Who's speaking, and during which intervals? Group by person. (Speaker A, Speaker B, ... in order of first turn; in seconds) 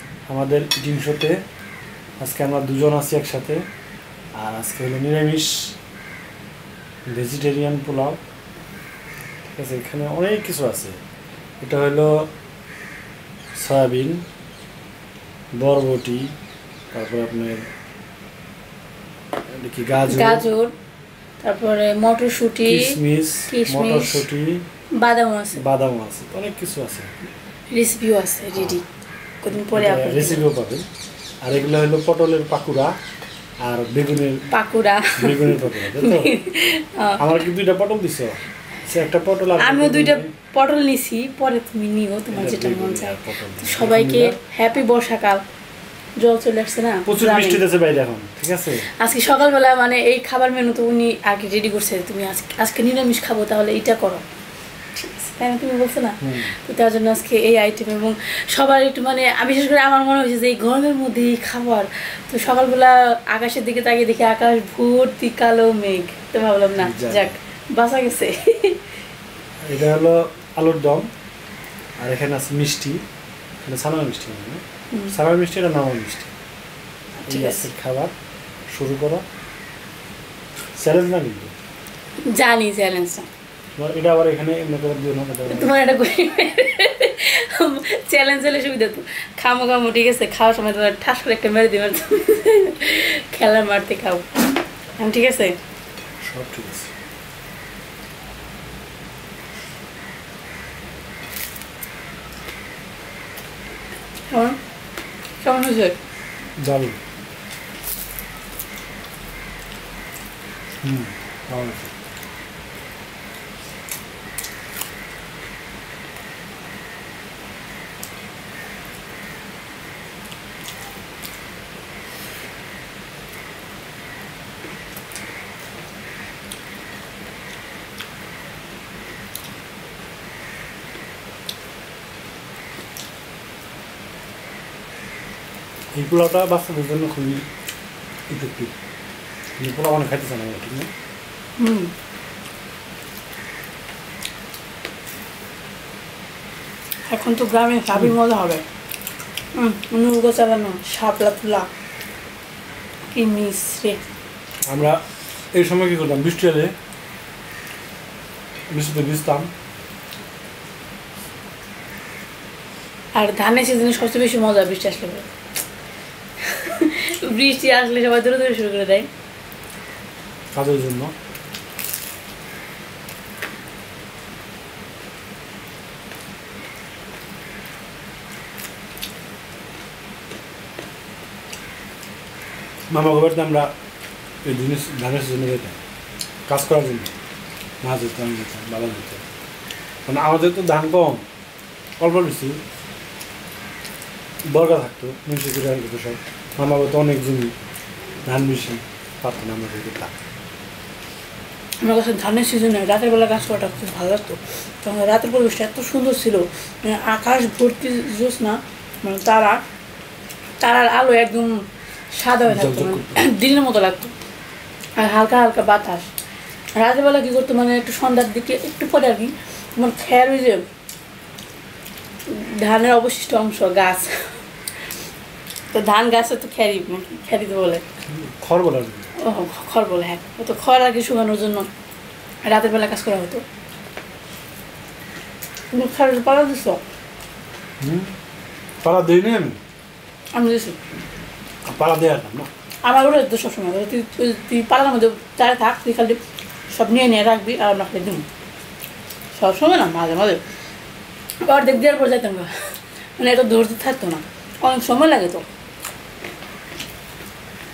Speaker A: 0.3-1.4, 2.2-3.6, 4.4-5.7, 7.1-8.2, 9.5-11.0, 11.6-12.3, 13.5-14.2, 15.5-16.3, 16.9-17.6, 19.5-20.4, 22.6-24.6, 25.5-27.1, 28.5-28.8, 29.5-30.9, 31.4-32.9, 33.6-34.5, 35.1-36.4, 37.2-40.3, 42.3-44.4, 47.0-48.9, 56.2-56.5, 66.8-67.3, 69.6-71.1, 72.0-73.0, 73.6-76.3, 77.3-78.1, 78.7-79.2, 80.7-81.5, 83.8-85.7, 96.2-96.9, 106.6-107.0, 110.8-111.9, 135.9-137.5, 138.3-138.7, 139.6-140.9, 154.7-155.0, 155.5-156.7, 158.7-159.5, 170.5-171.1, 182.9-183.7, 184.4-185.8, 186.5-187.1, 187.8-189.2, 190.1-191.2, 192.0-192.6, 194.5-197.5, 198.2-200.2, 212.5-213.2, 228.0-229.1, 237.8-238.1, 238.8-239.6, 241.7-242.5
Speaker B: 20.0-20.7, 21.4-23.0, 23.5-24.2, 24.9-25.6, 27.7-28.8, 29.4-30.4, 34.5-37.4, 39.6-45.4, 46.2-47.6, 48.9-54.2, 54.9-68.8, 77.2-77.7, 82.2-83.3, 85.5-95.6, 104.3-104.6, 105.4-106.0, 141.6-141.9, 147.1-148.6, 149.6-151.7, 153.1-154.0, 163.2-165.3, 166.4-169.1, 201.8-209.6, 210.6-214.1, 215.0-216.1, 216.8-220.6, 222.3-224.4, 225.7-227.8, 229.2-231.7, 232.4-233.4, 235.7-236.8, 240.3-240.8, 242.8-246.2, 246.7-248.2, 249.3-250.4, 251.4-252.5, 253.2-255.4